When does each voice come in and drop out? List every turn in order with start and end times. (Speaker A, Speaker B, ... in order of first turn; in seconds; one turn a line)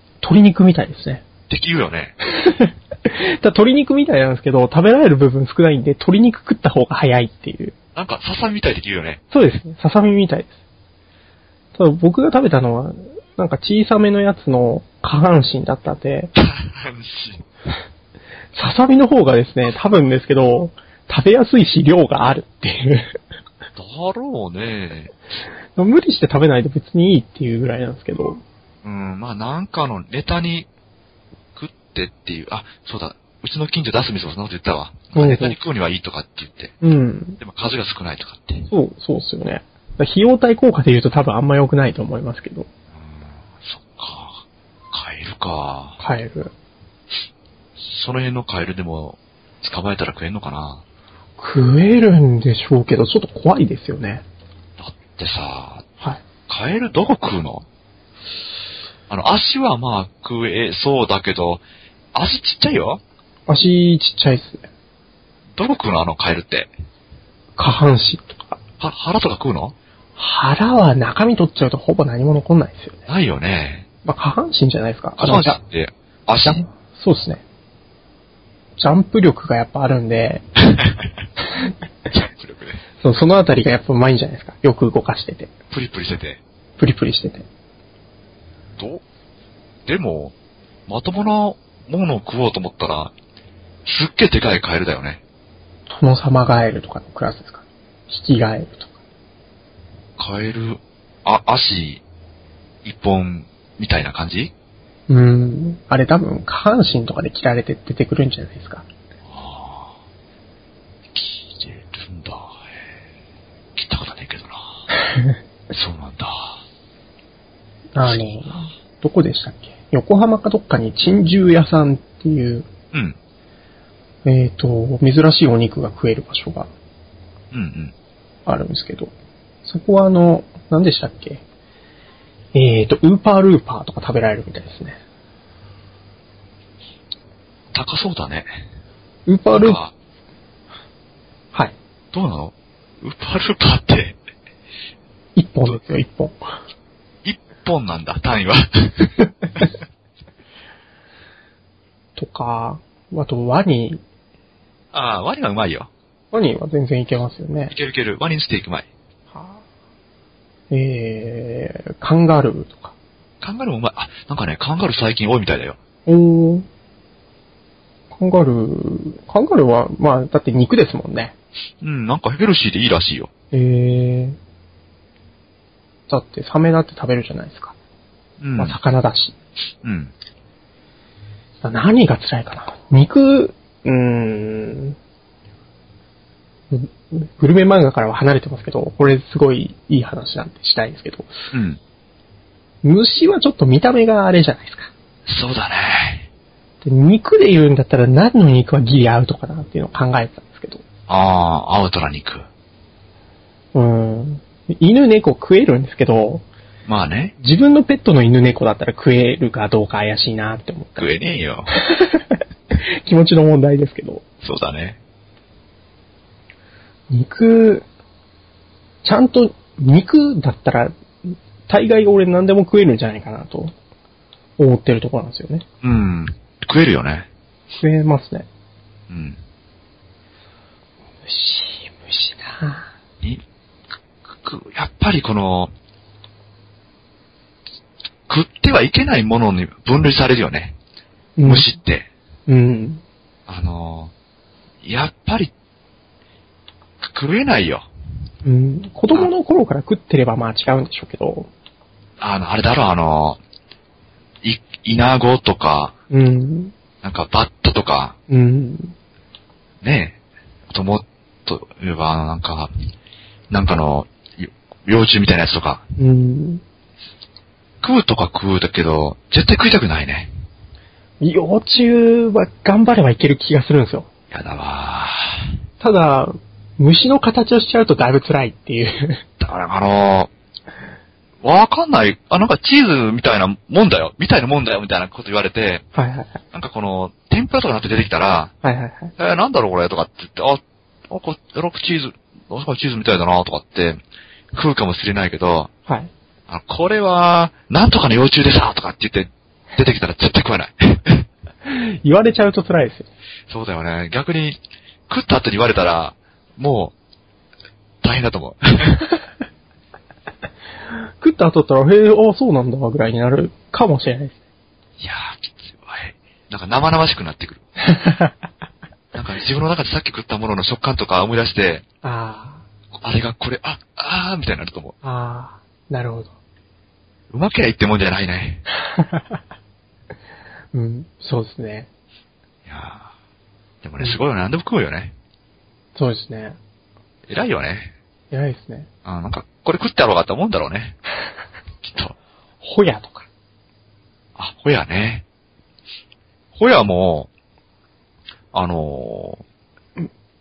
Speaker A: 0.2-1.2
Speaker B: 1.5-2.1
Speaker A: 2.3-7.8
Speaker B: 8.0-9.2
Speaker A: 9.3-10.6
Speaker A: 11.8-16.3
Speaker B: 16.4-17.4
Speaker A: 18.5-23.2
Speaker B: 23.8-25.1
Speaker A: 25.8-28.4
Speaker B: 28.8-30.7
Speaker B: 31.6-36.7
Speaker A: 35.1-35.6
Speaker A: 36.8-37.4
Speaker B: 37.4-38.7
Speaker A: 38.7-42.7
Speaker B: 42.9-46.0
Speaker A: 46.0-46.5
Speaker B: 47.8-50.8
Speaker A: 51.4-54.2
Speaker B: 54.8-55.8
Speaker B: 56.5-57.6
Speaker B: 59.1-61.6
Speaker B: 62.1-63.0
Speaker A: 63.5-64.7
Speaker B: 65.5-66.7
Speaker A: 67.6-68.6
Speaker B: 68.8-69.8
Speaker A: 70.2-73.0
Speaker B: 73.1-73.9
Speaker A: 74.0-75.6
Speaker B: 75.2-76.6
Speaker A: 76.5-77.4
Speaker A: 78.8-80.4
Speaker B: 80.7-81.1
Speaker B: 82.1-82.8
Speaker A: 83.0-85.5
Speaker B: 85.7-86.4
Speaker A: 86.8-87.5
Speaker B: 88.8-89.0
Speaker B: 89.9-90.3
Speaker B: 90.9-93.1
Speaker B: 93.9-95.2
Speaker A: 95.9-98.9
Speaker B: 100.2-102.0
Speaker B: 102.8-104.5
Speaker A: 105.1-108.9
Speaker B: 109.3-110.0
Speaker B: 111.1-112.6
Speaker B: 113.8-114.7
Speaker B: 115.7-116.6
Speaker A: 118.0-122.7
Speaker A: 124.2-126.7
Speaker B: 127.5-127.9
Speaker A: 128.5-129.1
Speaker A: 129.7-131.4
Speaker A: 132.5-135.0
Speaker B: 137.7-138.5
Speaker A: 139.3-139.8
Speaker B: 139.5-139.9
Speaker B: 142.1-144.2
Speaker A: 145.4-146.4
Speaker B: 147.2-149.7
Speaker A: 152.2-154.0
Speaker B: 154.9-155.9
Speaker A: 156.3-157.7
Speaker B: 157.7-158.9
Speaker A: 159.3-159.6
Speaker A: 160.7-162.9
Speaker B: 163.4-165.8
Speaker A: 166.1-166.7
Speaker A: 168.1-171.3
Speaker B: 171.8-173.3
Speaker A: 173.5-174.4
Speaker A: 176.1-177.8
Speaker B: 178.4-178.8
Speaker A: 178.6-179.4
Speaker B: 179.8-180.1
Speaker A: 181.6-185.0
Speaker A: 186.7-191.3
Speaker B: 191.5-191.8
Speaker A: 192.8-194.9
Speaker B: 195.3-196.3
Speaker A: 196.8-200.8
Speaker B: 201.1-202.5
Speaker A: 203.7-206.4
Speaker B: 206.9-207.3
Speaker A: 207.4-211.1
Speaker B: 211.0-211.7
Speaker A: 211.8-214.2
Speaker B: 214.4-215.0
Speaker A: 217.1-217.9
Speaker A: 219.0-223.7
Speaker A: 224.6-225.7
Speaker B: 225.8-227.3
Speaker A: 227.7-228.5
Speaker B: 229.1-229.4
Speaker A: 231.3-232.9
Speaker B: 234.3-235.7
Speaker B: 238.3-240.8
Speaker A: 241.4-241.7
Speaker B: 241.4-242.1
Speaker A: 242.5-243.0
Speaker B: 243.5-244.1
Speaker B: 244.8-245.5
Speaker B: 247.0-247.9
Speaker A: 248.4-251.5
Speaker B: 252.2-253.4
Speaker B: 254.4-255.9
Speaker A: 256.1-256.7
Speaker B: 257.0-258.2
Speaker A: 258.3-258.9
Speaker B: 259.8-260.2
Speaker B: 260.7-262.7
Speaker B: 263.5-265.8
Speaker A: 266.0-266.6
Speaker B: 267.8-270.3
Speaker A: 271.2-274.1
Speaker B: 274.3-275.5
Speaker A: 275.8-279.2
Speaker B: 279.4-280.3
Speaker B: 281.4-285.9
Speaker A: 285.9-286.4
Speaker B: 286.5-288.5
Speaker A: 288.6-289.1
Speaker B: 289.2-294.0
Speaker B: 294.5-295.7
Speaker B: 296.5-301.3
Speaker A: 301.6-303.1
Speaker B: 303.5-306.9
Speaker B: 308.0-309.1
Speaker A: 310.9-314.4
Speaker B: 315.0-317.6
Speaker A: 317.8-318.4
Speaker B: 319.1-321.9
Speaker A: 322.0-322.6
Speaker B: 323.0-324.9
Speaker A: 325.0-326.3
Speaker B: 327.3-328.6
Speaker A: 328.9-329.4
Speaker A: 330.7-331.9
Speaker B: 332.7-333.1
Speaker B: 333.8-335.1
Speaker A: 335.9-336.6
Speaker B: 337.3-337.9
Speaker A: 338.3-338.9
Speaker B: 339.1-341.0
Speaker B: 341.8-342.1
Speaker A: 342.6-343.3
Speaker B: 344.4-345.2
Speaker B: 346.6-347.3
Speaker B: 348.5-349.4